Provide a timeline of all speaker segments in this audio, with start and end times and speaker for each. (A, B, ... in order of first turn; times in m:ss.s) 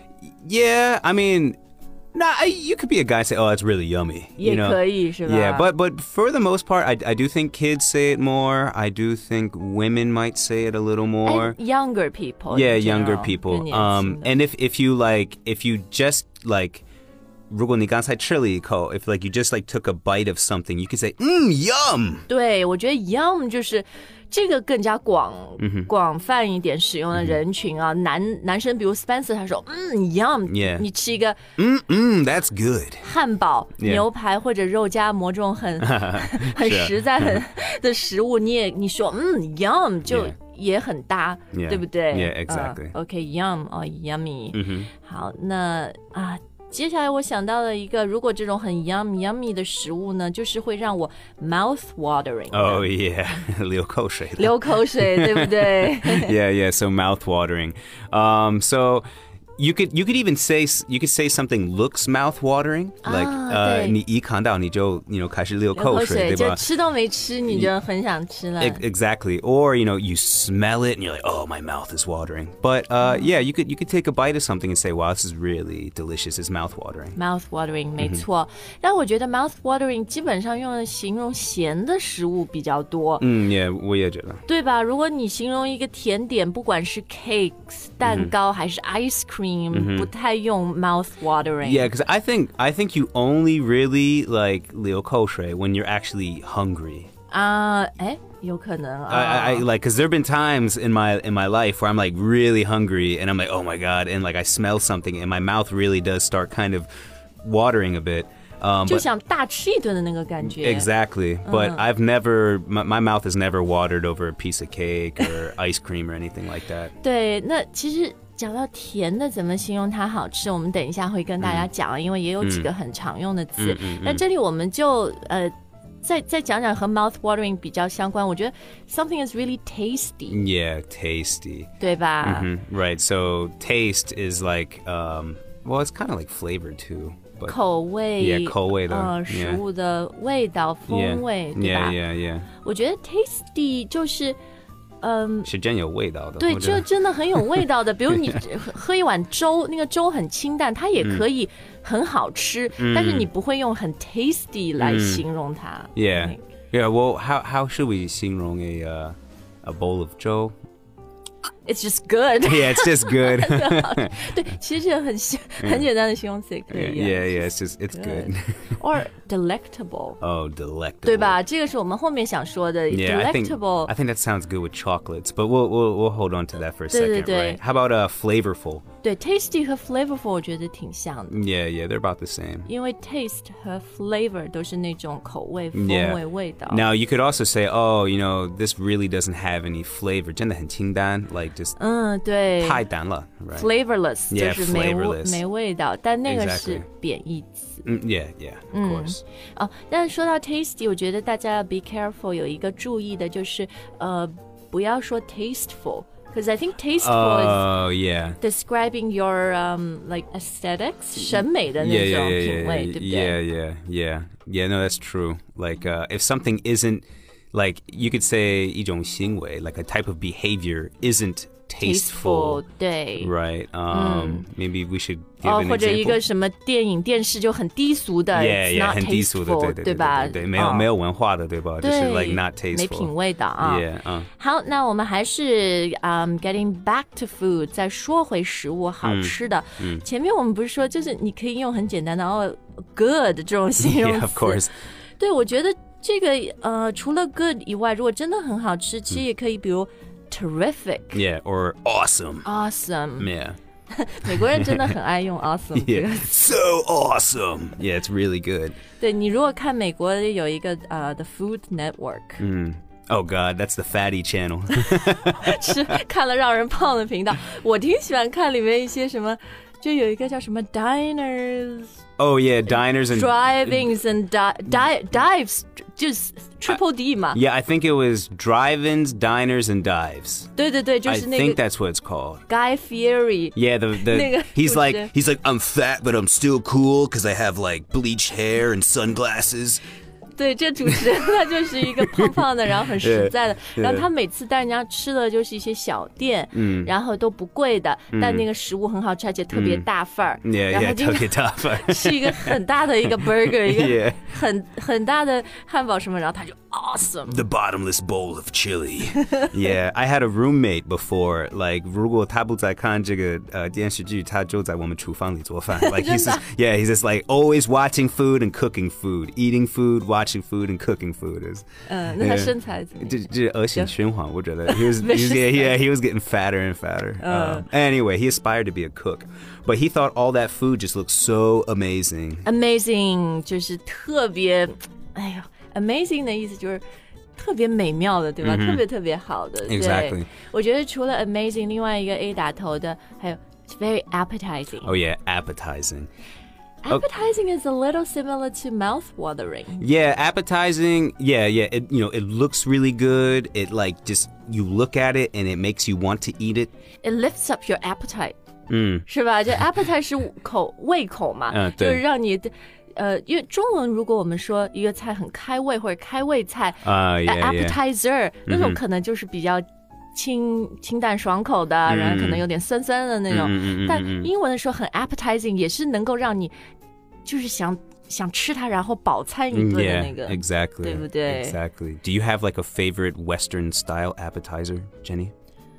0:00.4-0:01.6 A
0:02.1-0:11.6 A
0:04.4-0:05.7 B
0:11.2-0:14.3 B
0:12.5-0:16.8 A
0:17.5-0:22.2 A
0:22.3-0:31.4 B
0:25.6-0:25.9 A
0:30.5-0:30.8 A
0:31.6-0:33.0 A
0:33.0-0:52.9 B
0:33.8-0:34.0 A
0:35.8-0:37.4 A
0:40.0-0:40.3 A
0:41.5-0:42.9 A
0:44.5-0:44.9 A
0:52.5-0:59.0 A
0:54.4-0:56.4 B
0:59.6-1:06.6 A
1:03.0-1:04.0 B
1:05.7-1:08.8 B
1:07.5-1:07.7 A
1:08.6-1:17.2 A
1:13.0-1:13.3 B
1:17.1-1:23.3 B
1:18.0-1:18.2 A
1:23.2-1:24.4 A
1:24.4-1:31.9 B
1:28.0-1:28.3 A
1:29.7-1:30.1 A
1:31.6-1:37.1 A
1:37.3-1:39.6 B
1:39.1-1:46.9 A
1:47.4-1:49.0 A
1:48.8-1:50.9 B
1:50.4-1:56.9 A
1:51.4-1:51.8 B
1:57.0-2:05.5 B
2:01.4-2:01.7 A
2:02.4-2:02.7 A
2:03.6-2:04.2 A
2:06.0-2:10.4 B
2:10.3-2:11.7 A
2:11.8-2:12.5 B
2:12.2-2:17.6 A
2:17.5-2:22.0 B
2:18.2-2:19.6 A
2:20.9-2:22.5 A
2:22.6-2:24.4 B
2:25.0-2:25.5 B
2:25.4-2:28.4 A
2:26.4-2:36.4 B
2:31.0-2:31.2 A
2:32.8-2:33.3 A
2:34.8-2:35.2 A
2:35.9-2:40.5 A
2:41.6-2:50.2 B
2:42.4-2:44.4 A
2:45.6-2:45.9 A
2:46.7-2:48.8 A
2:50.2-2:51.4 A
2:51.0-2:53.9 B
2:52.9-2:58.8 A
2:56.9-2:57.6 B
2:59.0-3:01.4 B
3:01.3-3:02.7 A
3:02.6-3:06.8 B
3:05.7-3:11.8 A
3:11.8-3:12.8 B
3:12.6-3:13.7 A
3:13.5-3:17.9 B
3:14.3-3:15.4 A
3:16.2-3:16.9 A
3:17.8-3:19.2 A
3:18.7-3:27.7 B
3:27.0-3:28.4 A
3:28.4-3:33.4 B
3:31.2-3:42.6 A
3:41.8-3:43.3 B
3:43.2-3:46.2 A
3:43.9-3:44.5 B
3:45.4-3:50.9 B
3:48.3-3:54.3 A
3:51.8-4:04.6 B
3:59.0-4:00.0 A
4:03.8-4:04.7 A
4:05.2-4:11.2 B
4:11.1-4:12.5 A
4:12.4-4:13.3 B
4:13.2-4:13.6 A
4:13.9-4:16.4 B
4:14.2-4:14.9 A
4:15.7-4:18.8 A
4:19.0-4:22.4 B
4:22.4-4:26.0 A
4:24.9-4:32.0 B
4:32.2-4:34.0 A
4:32.9-4:37.4 B
4:37.3-4:40.5 A
4:40.6-4:41.6 B
4:41.0-4:42.4 A
4:42.5-4:45.1 B
4:43.6-4:49.8 A
4:50.4-5:07.4 B
4:50.9-4:54.1 A
4:56.5-4:56.9 A
4:58.1-4:58.5 A
4:59.5-4:59.8 A
5:00.4-5:04.3 A
5:07.3-5:32.5 A
5:15.8-5:16.4 B
5:21.9-5:23.9 B
5:24.6-5:25.7 B
5:27.2-5:27.6 B
5:32.4-5:36.8 B
5:37.4-5:44.9 B
5:38.4-5:38.8 A
5:39.6-5:40.3 A
5:44.8-5:46.1 A
5:46.8-5:49.8 B
5:49.8-5:56.7 A
5:57.0-5:58.3 B
5:58.7-5:59.0 A
5:59.0-6:16.5 B
6:01.5-6:02.0 A
6:06.8-6:07.8 A
6:08.5-6:08.8 A
6:11.8-6:12.5 A
6:13.3-6:14.3 A
6:17.2-6:21.6 B
6:19.5-6:25.3 A